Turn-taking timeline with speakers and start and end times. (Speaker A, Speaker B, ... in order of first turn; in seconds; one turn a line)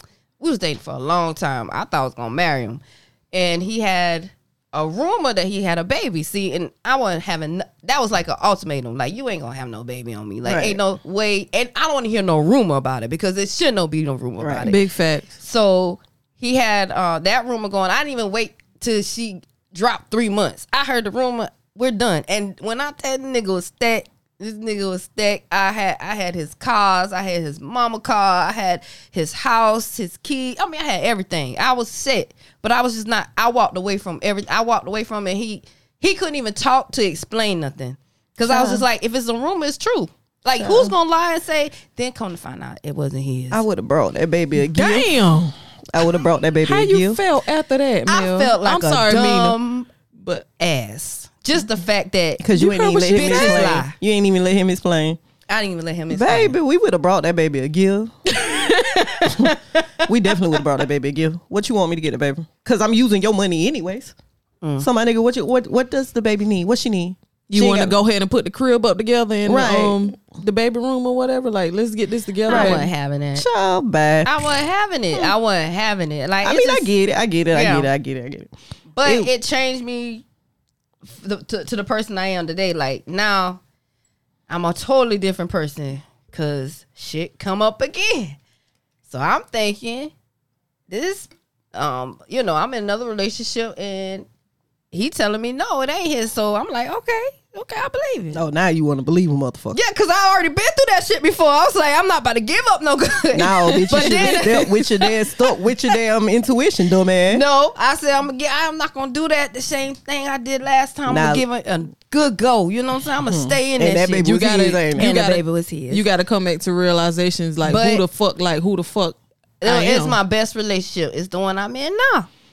Speaker A: 0.4-14.8
Speaker B: 10.4-10.8
Speaker B: 14.4-14.7
Speaker C: 14.7-15.3
Speaker A: 15.4-43.6
Speaker B: 38.5-38.8
Speaker B: 40.6-40.9
Speaker B: 43.5-45.2
Speaker C: 44.6-45.5
Speaker B: 45.9-47.2
Speaker C: 46.6-49.6
Speaker A: 48.1-49.9
Speaker A: 50.6-52.4
Speaker B: 52.4-55.2
Speaker C: 52.5-53.7
Speaker A: 53.1-54.0
Speaker A: 55.5-56.6
Speaker B: 56.1-58.1
Speaker C: 58.4-59.4
Speaker B: 59.3-64.1
Speaker A: 64.6-64.9
Speaker B: 64.8-68.0
Speaker C: 67.5-72.9
Speaker B: 69.5-70.1
Speaker A: 72.5-73.5
Speaker B: 72.5-74.3
Speaker A: 74.2-76.9
Speaker B: 76.4-78.5
Speaker A: 77.5-77.9
Speaker A: 79.0-80.2
Speaker B: 79.0-79.3
Speaker A: 81.0-83.6
Speaker A: 84.5-88.4
Speaker A: 89.1-90.1
Speaker A: 90.9-94.3
Speaker A: 94.9-98.4
Speaker B: 98.3-99.8
Speaker A: 99.7-105.9
Speaker B: 103.3-107.4
Speaker C: 104.0-104.4
Speaker A: 107.3-116.1
Speaker B: 111.1-111.5
Speaker B: 113.2-115.2
Speaker C: 114.3-120.2
Speaker A: 117.6-118.0
Speaker A: 119.6-122.3